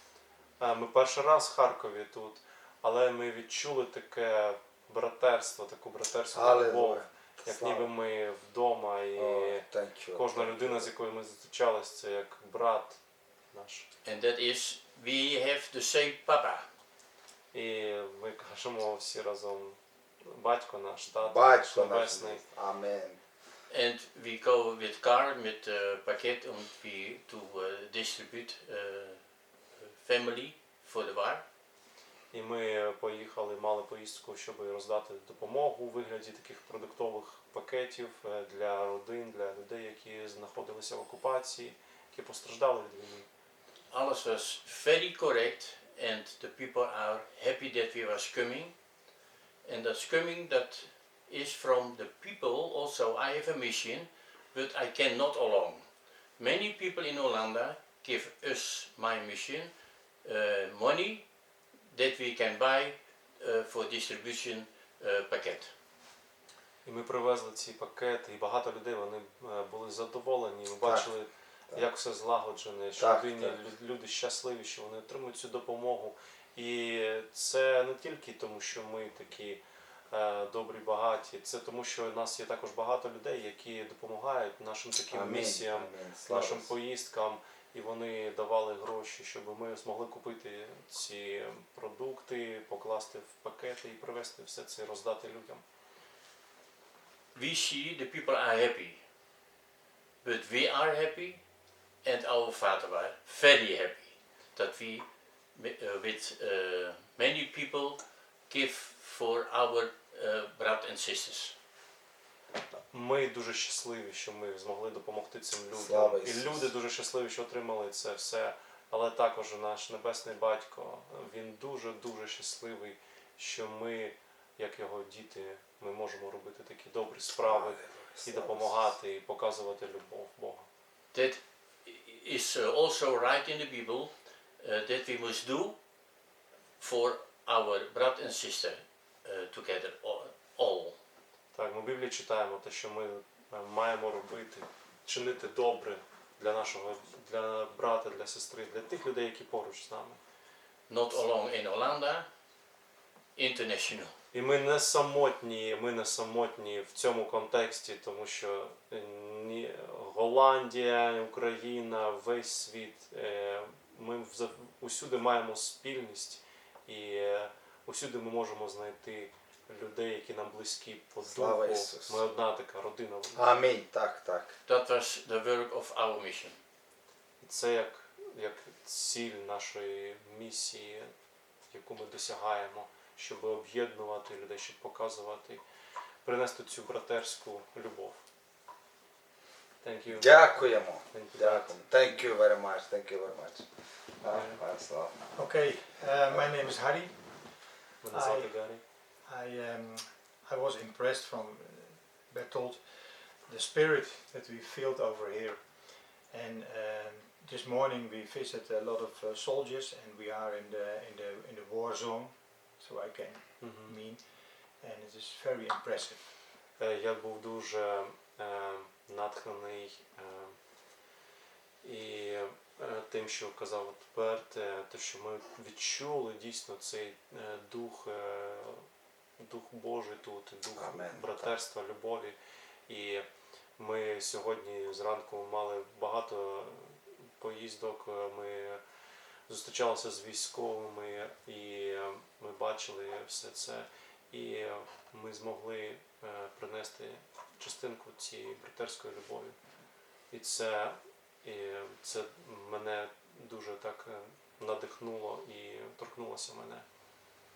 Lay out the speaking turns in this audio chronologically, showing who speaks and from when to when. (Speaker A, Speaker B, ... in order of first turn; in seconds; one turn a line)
Speaker A: 0.6-13.0
Speaker B: 6.3-7.9
Speaker B: 9.2-10.9
Speaker A: 13.5-13.9
Speaker C: 14.0-16.6
Speaker A: 17.5-22.4
Speaker B: 21.2-23.2
Speaker C: 23.7-29.2
Speaker C: 29.8-31.4
Speaker A: 32.3-43.3
Speaker C: 43.9-48.8
Speaker C: 49.6-55.9
Speaker C: 56.4-59.7
Speaker C: 60.2-61.3
Speaker C: 61.9-65.7
Speaker A: 66.8-95.6
Speaker B: 70.8-71.1
Speaker B: 73.0-73.5
Speaker B: 85.1-86.7
Speaker C: 97.3-99.0
Speaker C: 100.2-101.4
Speaker C: 102.0-111.5
Speaker A: 112.9-130.7
Speaker B: 115.7-116.7
Speaker B: 127.5-128.8
Speaker C: 131.1-135.8
Speaker C: 136.8-140.9
Speaker A: 141.5-150.2
Speaker C: 150.9-152.3
Speaker C: 153.4-154.1
Speaker A: 154.3-173.4
Speaker B: 171.2-172.2
Speaker B: 173.3-174.6
Speaker C: 174.7-176.6
Speaker A: 177.4-181.1
Speaker A: 181.7-185.6
Speaker A: 186.2-188.2
Speaker A: 189.8-192.3
Speaker B: 190.2-193.7
Speaker B: 194.2-195.6
Speaker A: 194.3-194.6
Speaker D: 195.3-216.4
Speaker B: 196.2-196.5
Speaker A: 198.0-198.8
Speaker A: 213.6-214.0
Speaker A: 216.8-220.6
Speaker A: 221.8-228.8
Speaker A: 229.4-232.4
Speaker B: 230.8-231.3
Speaker A: 232.9-233.2
Speaker A: 233.8-238.8
Speaker A: 239.5-256.9